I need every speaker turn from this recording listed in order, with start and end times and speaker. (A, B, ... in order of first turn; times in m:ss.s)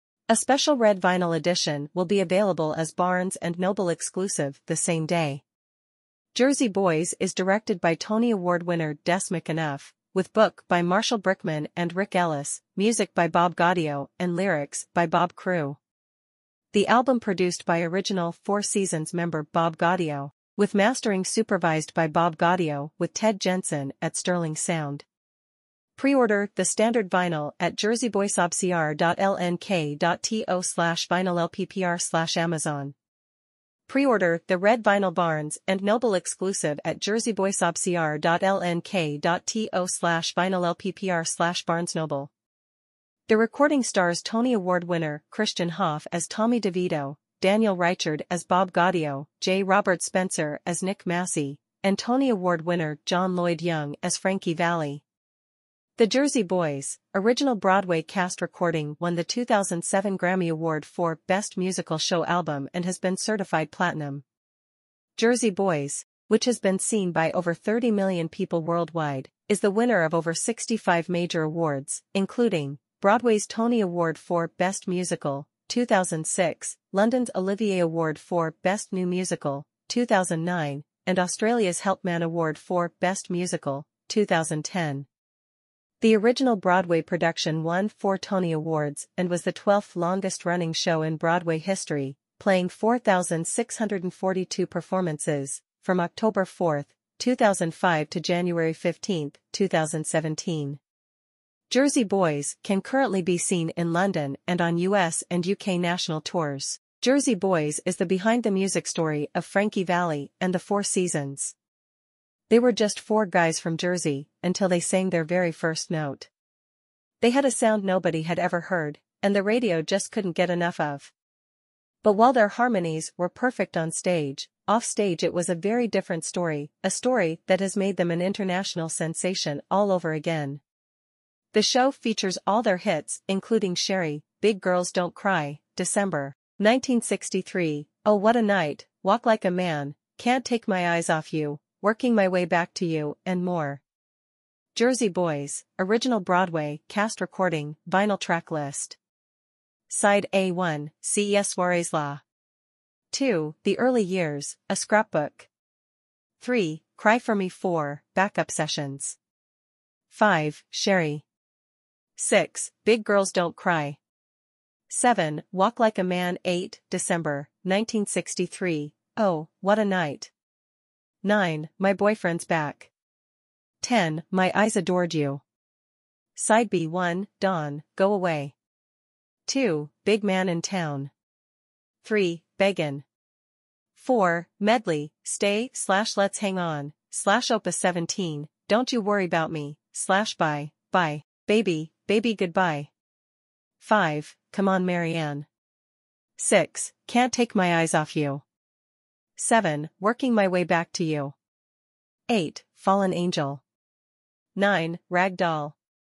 0:00.3-0:05.4 A
0:06.3-0:15.8 A
0:16.7-0:25.1 A
0:26.0-0:33.0 A
0:33.9-0:42.3 A
0:43.3-0:55.0 A
0:56.0-1:04.2 A
1:05.2-1:25.1 A
1:26.0-1:40.8 A
1:41.7-1:51.6 A
1:52.5-1:56.3 A
1:57.2-2:01.1 A
2:02.0-2:10.6 A
2:11.5-2:23.8 A
2:24.7-2:29.0 A
2:29.9-2:32.2 A
2:33.1-2:35.5 A
2:36.4-2:39.2 A
2:40.1-2:41.2 A
2:42.2-2:44.0 A
2:44.9-2:50.3 A
2:51.2-2:52.9 A
2:53.8-2:55.4 A
2:56.4-2:58.6 A
2:59.5-3:01.1 A
3:02.0-3:03.0 A
3:03.9-3:12.9 A
3:13.8-3:15.5 A
3:16.4-3:18.4 A
3:19.4-3:21.4 A
3:22.3-3:23.6 A
3:24.6-3:25.8 A